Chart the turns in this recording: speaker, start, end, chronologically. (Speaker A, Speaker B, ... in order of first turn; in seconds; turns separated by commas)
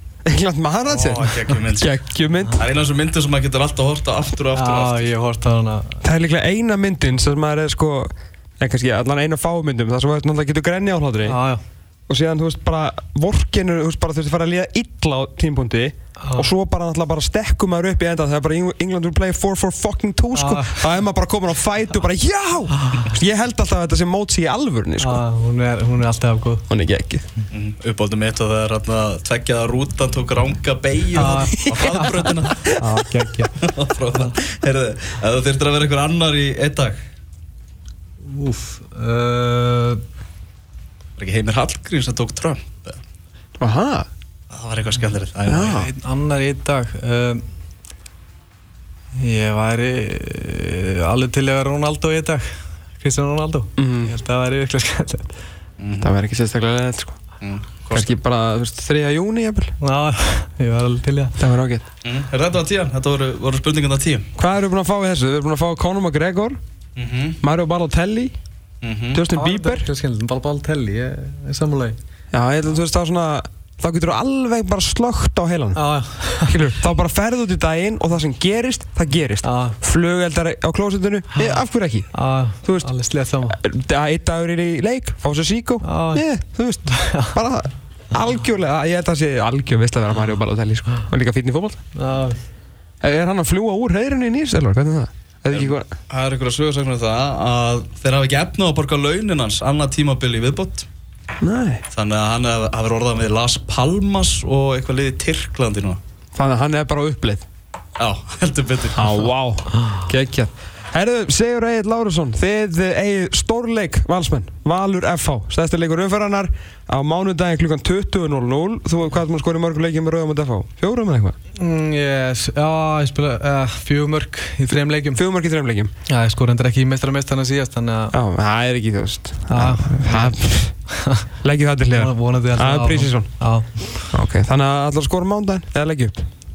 Speaker A: 0.2-2.6, Speaker B: 0.8-2.0, Speaker B: 2.5-5.1, Speaker C: 4.5-6.0, Speaker A: 6.0-11.4, Speaker C: 11.2-11.6, Speaker A: 12.1-25.2, Speaker C: 16.2-16.5, Speaker C: 20.3-20.9, Speaker C: 22.8-23.1, Speaker C: 25.0-26.6, Speaker A: 26.7-27.2, Speaker B: 27.5-32.8, Speaker C: 31.1-33.5, Speaker B: 33.5-37.0, Speaker C: 38.2-40.0, Speaker B: 41.2-43.0, Speaker A: 43.6-44.1, Speaker B: 44.5-45.9, Speaker A: 45.5-45.9, Speaker C: 45.7-47.4, Speaker C: 49.1-52.5, Speaker C: 53.0-55.4, Speaker A: 53.8-54.1, Speaker B: 55.8-56.1, Speaker A: 56.0-57.2, Speaker B: 57.4-58.1, Speaker A: 57.9-59.7, Speaker C: 59.8-61.4, Speaker A: 61.4-61.8, Speaker B: 62.0-64.3, Speaker A: 64.4-66.6, Speaker B: 67.0-67.4, Speaker A: 67.4-68.3, Speaker B: 68.8-69.2, Speaker A: 69.1-69.8, Speaker C: 69.3-72.0, Speaker A: 72.3-75.8, Speaker C: 75.8-76.6, Speaker A: 76.4-82.1, Speaker C: 79.4-79.8, Speaker C: 81.3-81.6, Speaker C: 82.1-83.6, Speaker A: 83.5-91.8, Speaker C: 85.8-86.2, Speaker C: 86.8-87.4, Speaker C: 91.9-92.4, Speaker A: 93.0-95.9, Speaker B: 95.5-100.9, Speaker A: 101.4-101.8, Speaker B: 101.9-106.0, Speaker A: 106.3-107.5, Speaker B: 108.0-109.3, Speaker A: 108.9-121.3, Speaker C: 121.6-125.2, Speaker A: 125.1-125.9, Speaker C: 126.1-128.1, Speaker A: 128.1-130.7, Speaker C: 129.5-131.3, Speaker A: 131.4-133.3, Speaker C: 131.9-134.1, Speaker A: 134.1-136.3